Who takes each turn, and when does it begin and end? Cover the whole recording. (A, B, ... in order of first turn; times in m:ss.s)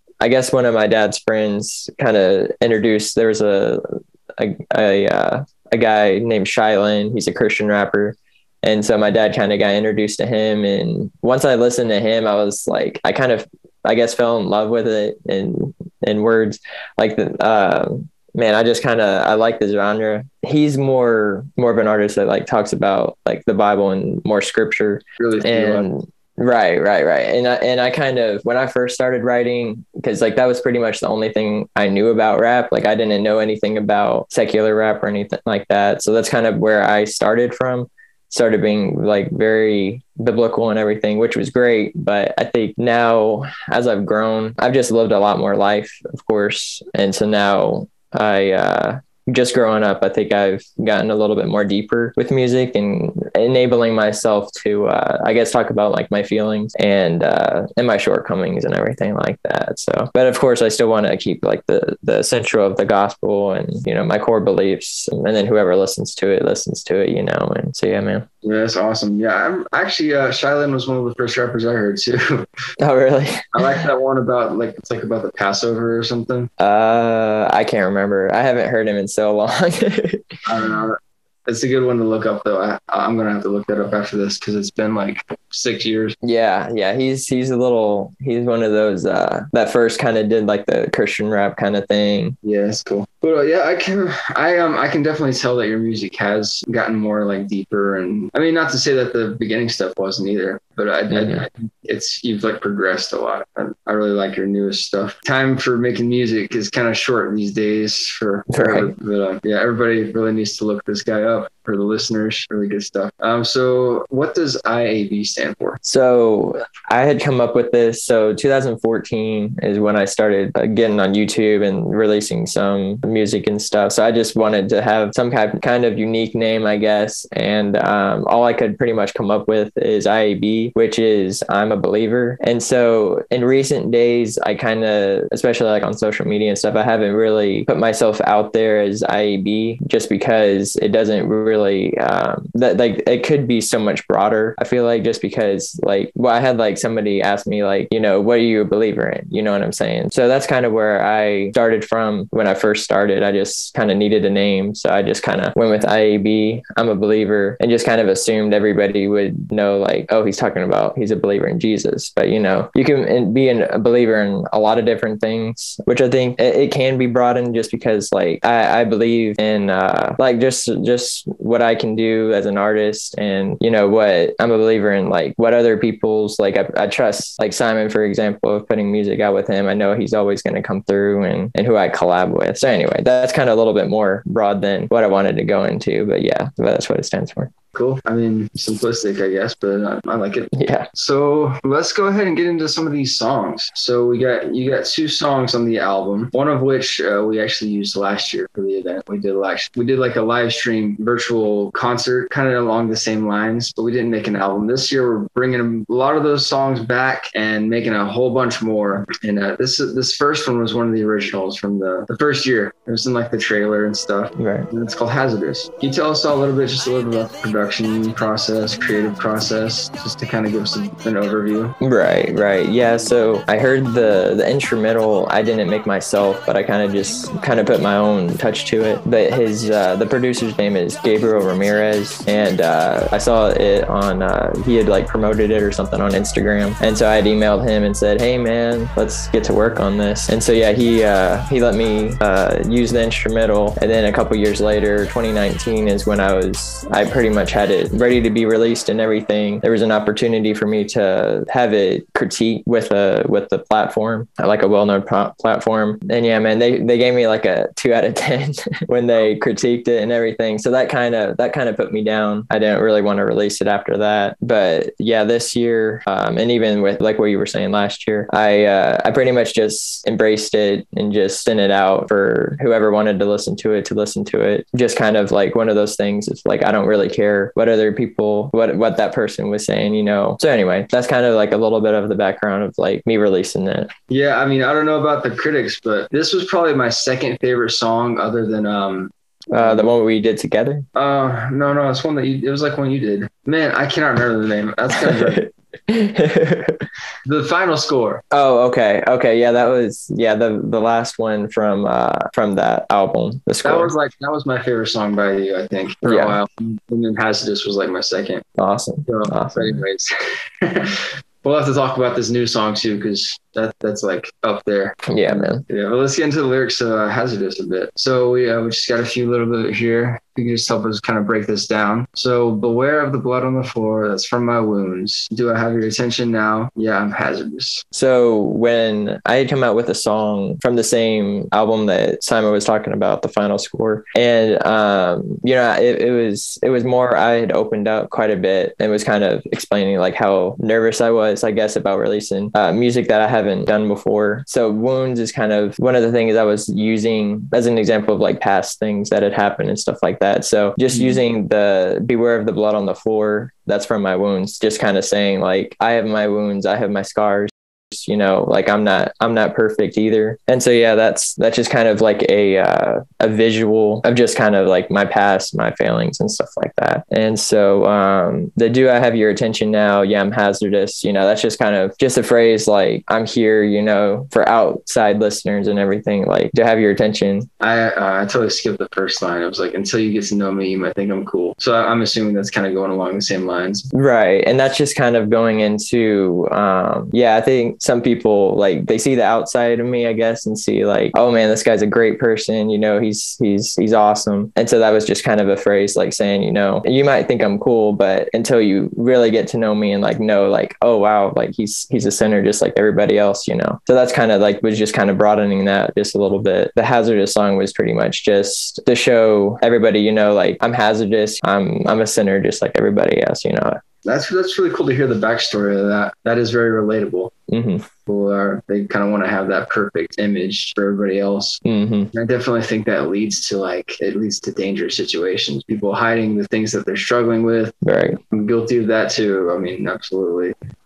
0:00.2-0:03.8 A
0:04.4-1:08.2 A
0:25.2-0:25.8 B
1:08.4-1:12.5 B
1:12.8-1:13.8 A
1:13.5-1:16.5 B
1:16.6-1:20.4 A
1:20.4-1:26.2 B
1:26.2-1:32.4 A
1:32.4-1:55.8 B
1:41.1-1:41.4 A
1:48.5-1:48.9 A
1:55.8-3:07.5 A
3:07.7-3:41.7 B
3:10.5-3:10.9 A
3:34.4-3:34.7 A
3:41.8-4:43.9 A
4:44.1-4:49.8 B
4:49.5-4:50.8 A
4:50.9-4:55.4 B
4:54.9-4:56.8 A
4:57.2-4:58.2 B
4:58.3-5:03.9 A
5:03.6-5:08.5 B
5:06.0-5:06.4 A
5:08.6-5:09.8 A
5:09.0-5:27.8 B
5:15.0-5:15.6 A
5:27.9-6:17.5 A
6:17.6-6:23.9 B
6:23.9-6:53.8 A
6:54.0-6:57.3 B
6:57.5-6:57.8 A
6:58.0-7:01.6 B
7:01.6-7:02.1 A
7:02.1-7:10.5 B
7:07.8-7:08.2 A